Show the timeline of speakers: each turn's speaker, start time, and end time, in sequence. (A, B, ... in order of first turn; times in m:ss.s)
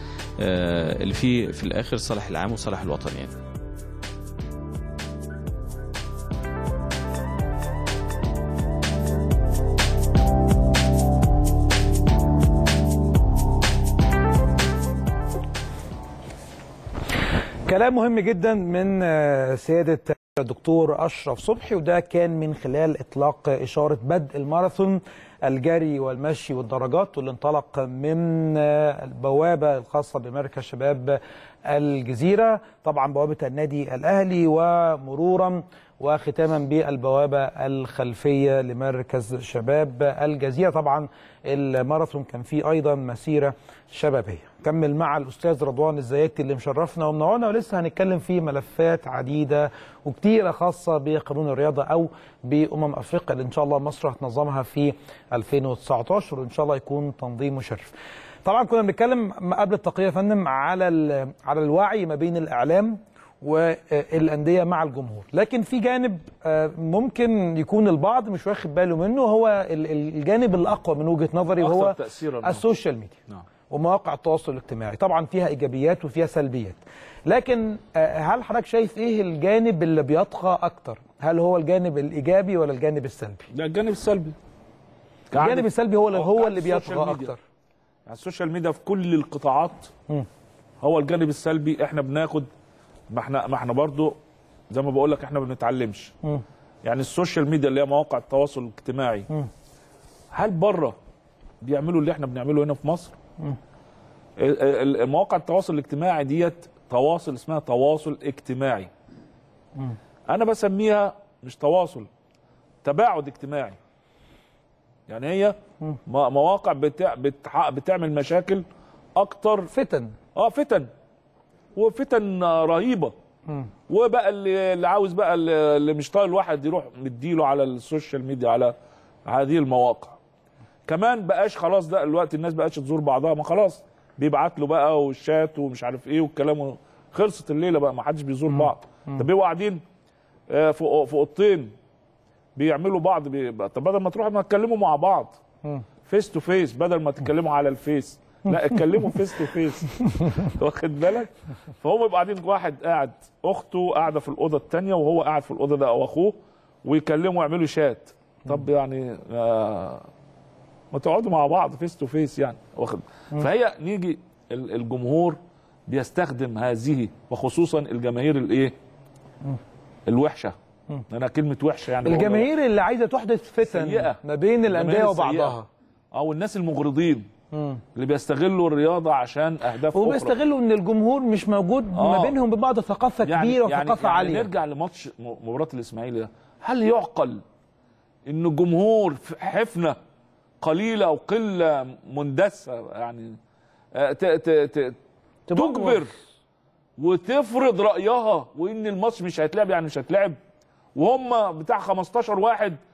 0:00.4-0:03.3 A
0:17.7-0:57.9 B
0:58.4-1:13.2 B
1:11.6-1:12.6 C
1:13.7-1:23.5 B
1:23.5-1:24.4 C
1:25.3-1:27.3 C
1:25.4-1:27.4 B
1:28.1-1:29.9 C
1:30.8-1:32.5 C
1:33.1-1:34.2 C
1:34.7-1:36.1 C
1:36.8-1:39.3 C
1:40.3-1:41.0 C
1:41.6-1:43.1 C
1:44.4-1:48.9 C
1:50.3-1:52.1 C
1:52.8-1:53.8 C
1:55.1-1:59.7 C
1:59.7-2:00.1 B
2:00.3-2:00.9 C
2:01.7-2:03.1 C
2:03.9-2:08.7 C
2:09.3-2:10.2 C
2:10.8-2:19.8 C
2:20.5-2:21.7 C
2:22.6-2:25.4 C
2:26.0-2:40.1 C
2:40.9-2:48.7 C
2:50.1-2:50.5 C
2:51.1-2:52.5 C
2:52.0-2:55.6 B
2:53.6-2:55.6 C
2:56.1-2:57.3 C
2:57.5-2:57.8 B
2:57.9-3:00.3 C
2:59.9-3:04.5 B
3:01.9-3:02.4 C
3:03.2-3:07.4 C
3:08.3-3:10.0 C
3:10.6-3:13.4 C
3:13.9-3:15.0 C
3:15.5-3:16.0 B
3:15.5-3:16.1 C
3:17.0-3:20.4 C
3:20.9-3:22.8 C